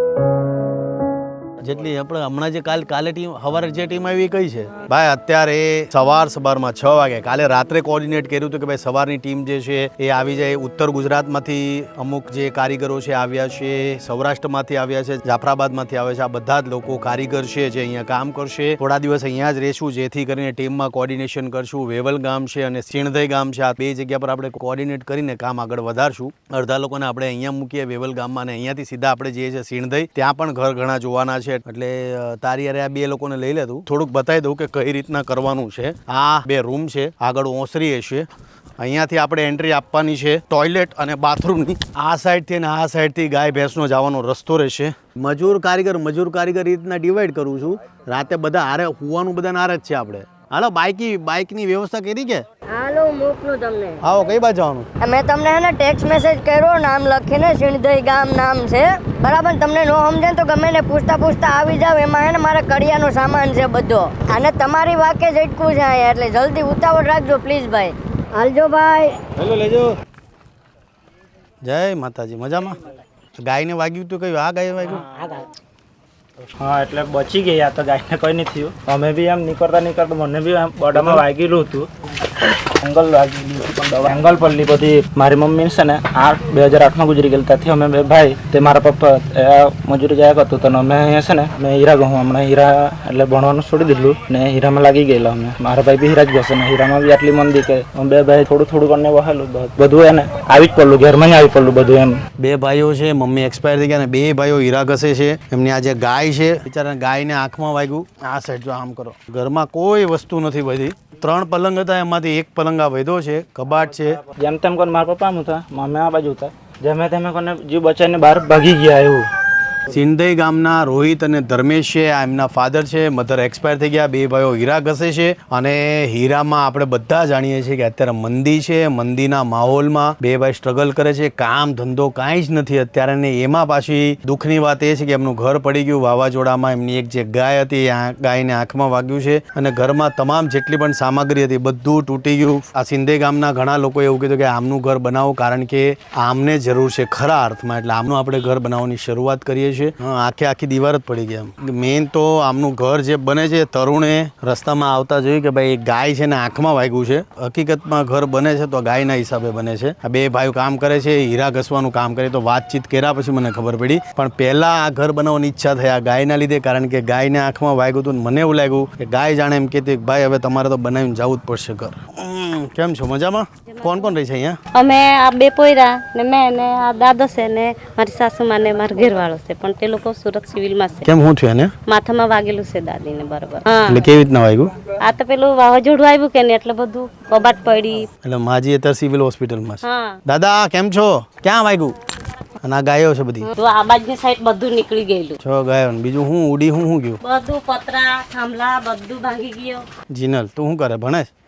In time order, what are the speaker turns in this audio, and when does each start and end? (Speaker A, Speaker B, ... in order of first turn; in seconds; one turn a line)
Speaker A: 1.6-38.3
Speaker A: 38.8-52.4
Speaker B: 52.7-54.0
Speaker A: 54.0-54.9
Speaker B: 55.0-69.1
Speaker A: 69.4-69.9
Speaker A: 71.6-72.8
Speaker A: 73.4-75.0
Speaker C: 75.0-75.4
Speaker C: 76.6-81.9
Speaker A: 80.9-81.2
Speaker C: 82.4-102.2
Speaker A: 102.4-114.2
Speaker C: 114.3-119.3
Speaker A: 119.9-174.6
Speaker D: 173.7-174.1
Speaker D: 174.8-181.1
Speaker A: 181.0-181.7
Speaker D: 181.9-184.0
Speaker A: 183.9-184.7
Speaker D: 185.0-188.1
Speaker A: 188.2-191.9
Speaker D: 189.8-190.2
Speaker A: 192.6-193.5
Speaker D: 193.5-195.4
Speaker A: 195.4-197.2
Speaker D: 197.2-199.8
Speaker A: 200.1-201.3